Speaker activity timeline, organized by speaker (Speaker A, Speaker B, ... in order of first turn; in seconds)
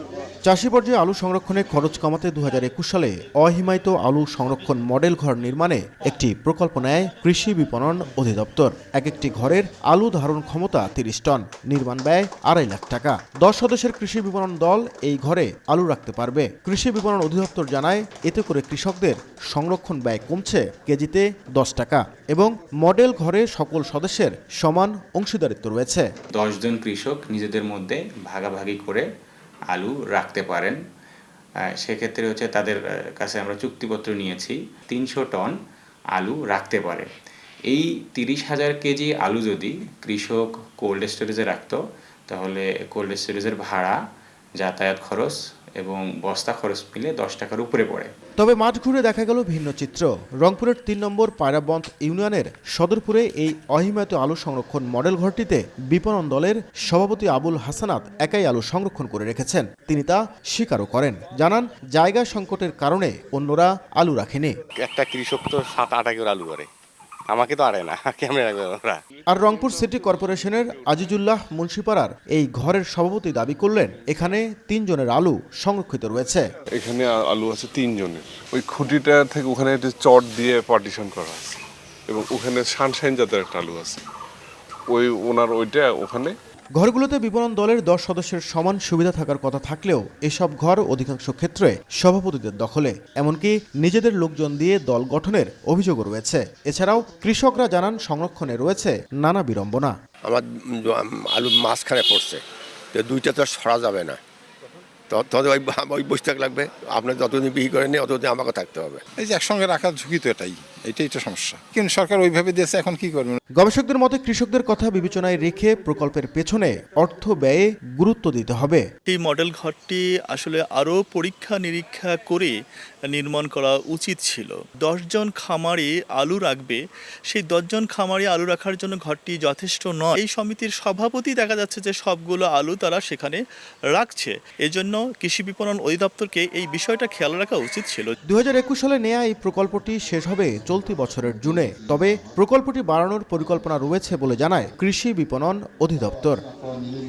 Speaker A: 0.5-26.1, 48.4-64.5, 69.3-76.4, 86.8-100.0, 113.6-118.8, 138.3-146.4
Speaker B: 26.3-29.1, 29.7-30.8, 31.7-35.5, 36.1-37.1, 37.7-44.0, 44.6-48.1
Speaker C: 64.8-66.7, 67.3-69.0
Speaker D: 76.8-84.0, 84.9-86.4
Speaker E: 100.2-102.4, 102.9-104.2, 105.1-109.0
Speaker F: 109.2-113.4
Speaker G: 119.1-122.6, 123.1-133.4, 133.9-138.1